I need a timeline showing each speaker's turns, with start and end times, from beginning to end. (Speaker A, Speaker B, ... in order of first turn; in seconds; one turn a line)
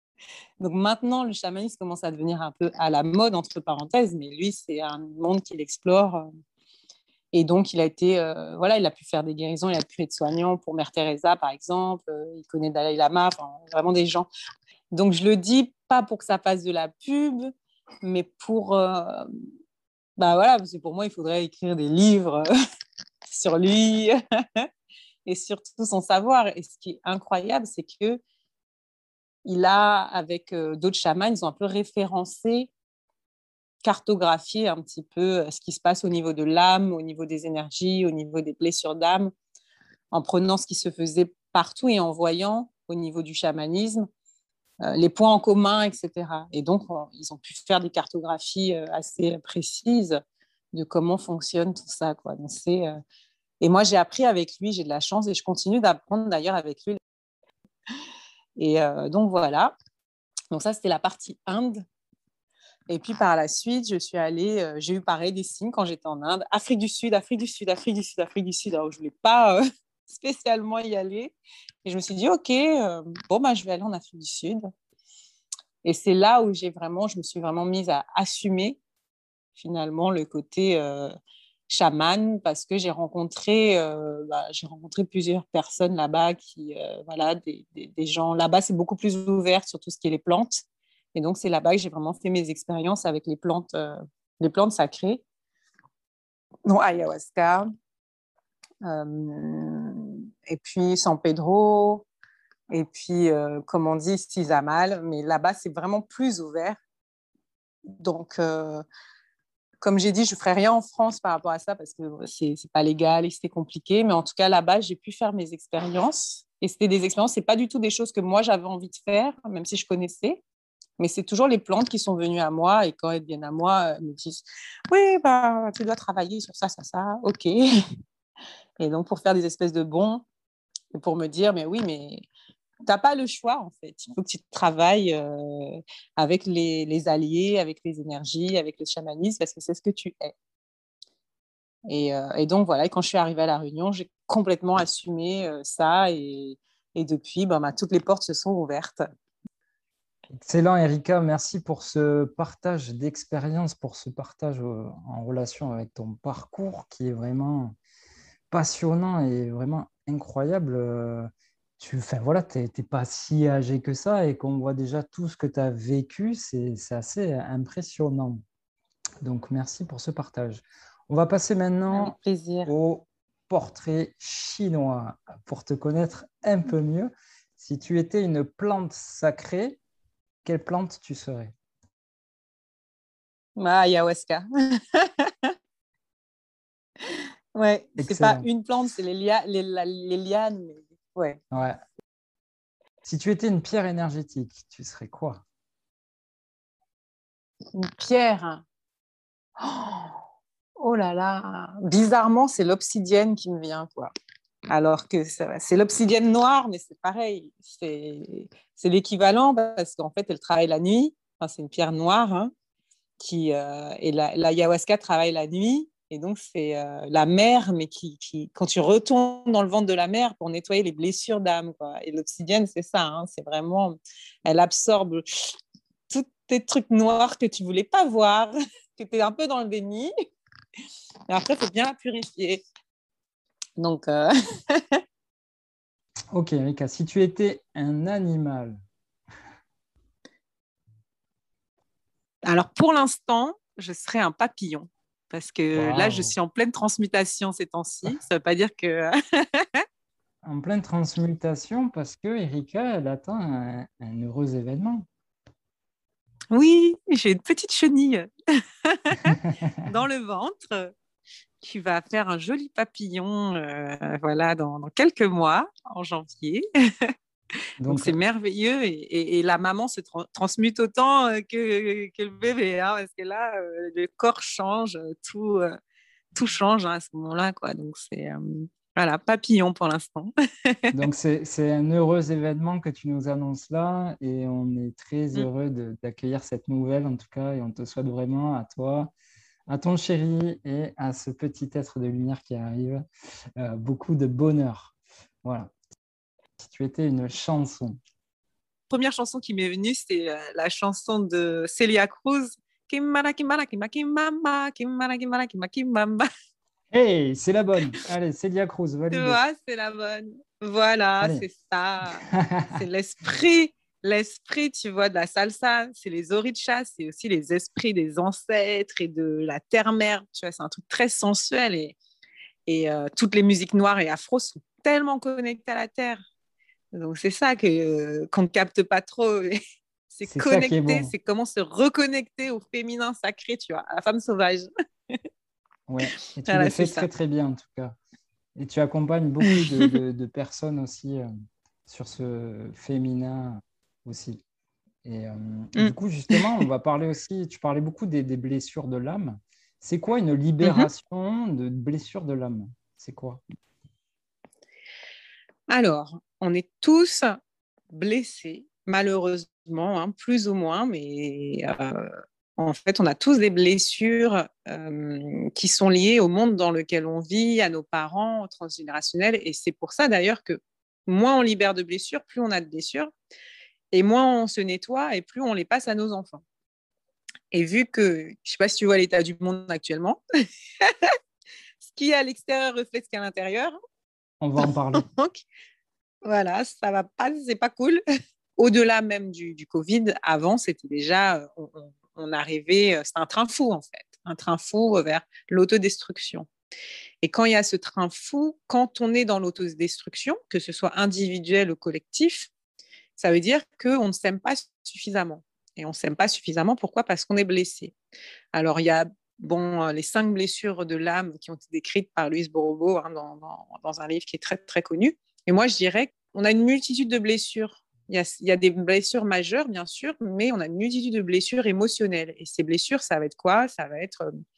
Speaker A: 0.6-6.2
Speaker A: 7.3-14.3
Speaker A: 14.9-19.3
Speaker A: 20.2-22.5
Speaker A: 23.3-24.7
Speaker A: 25.3-28.2
Speaker A: 29.4-32.7
Speaker A: 33.8-39.3
Speaker A: 40.1-44.1
Speaker A: 44.8-50.2
Speaker A: 50.7-52.9
Speaker A: 53.6-57.0
Speaker A: 58.6-59.7
Speaker A: 60.5-61.9
Speaker A: 62.9-71.3
Speaker A: 71.8-74.6
Speaker A: 75.8-78.8
Speaker A: 79.6-81.1
Speaker A: 81.7-90.6
Speaker A: 91.2-95.2
Speaker A: 96.7-97.7
Speaker A: 98.8-102.1
Speaker A: 102.7-106.8
Speaker A: 108.0-108.8
Speaker A: 109.8-120.4
Speaker A: 121.0-127.5
Speaker A: 128.8-130.2
Speaker A: 130.9-132.2
Speaker A: 132.9-140.3
Speaker A: 141.9-149.0
Speaker B: 150.3-157.8
Speaker B: 158.5-168.4
Speaker B: 169.2-179.8
Speaker A: 171.9-172.7
Speaker B: 180.4-181.5
Speaker A: 183.6-185.5
Speaker A: 187.1-191.4
Speaker B: 188.0-188.4
Speaker B: 191.5-191.8
Speaker B: 193.0-195.4
Speaker A: 197.7-198.6
Speaker A: 199.6-200.2
Speaker A: 200.8-204.1
Speaker A: 204.7-212.5
Speaker A: 213.2-225.2
Speaker A: 226.1-230.1
Speaker A: 231.3-232.6
Speaker A: 233.8-235.0
Speaker B: 236.3-238.8
Speaker A: 242.4-249.8
Speaker B: 245.7-246.3
Speaker B: 250.4-255.1
Speaker A: 256.5-258.3
Speaker A: 258.8-260.9
Speaker A: 261.6-266.6
Speaker B: 267.8-268.2
Speaker A: 267.9-275.7
Speaker A: 276.4-280.9
Speaker B: 280.9-289.1
Speaker B: 289.7-293.0
Speaker B: 293.6-295.7
Speaker B: 296.6-298.0
Speaker A: 298.9-306.3
Speaker B: 306.9-309.4
Speaker A: 309.1-322.0
Speaker B: 311.2-311.5
Speaker B: 312.3-312.7
Speaker A: 322.7-326.2
Speaker A: 326.9-329.6
Speaker A: 330.1-335.2
Speaker B: 330.2-331.1
Speaker B: 335.9-338.0
Speaker A: 336.5-337.1
Speaker B: 338.6-341.3
Speaker B: 341.9-344.4
Speaker B: 345.1-353.4
Speaker A: 345.8-346.5
Speaker A: 350.6-350.9
Speaker A: 355.7-357.4
Speaker A: 357.9-373.1
Speaker A: 373.9-376.4
Speaker A: 377.5-380.2
Speaker A: 380.8-381.1
Speaker A: 381.8-383.8
Speaker B: 384.4-385.1
Speaker A: 384.6-385.4
Speaker A: 386.2-388.0
Speaker A: 388.6-396.5
Speaker A: 397.2-402.5
Speaker A: 403.2-407.9
Speaker A: 408.5-424.3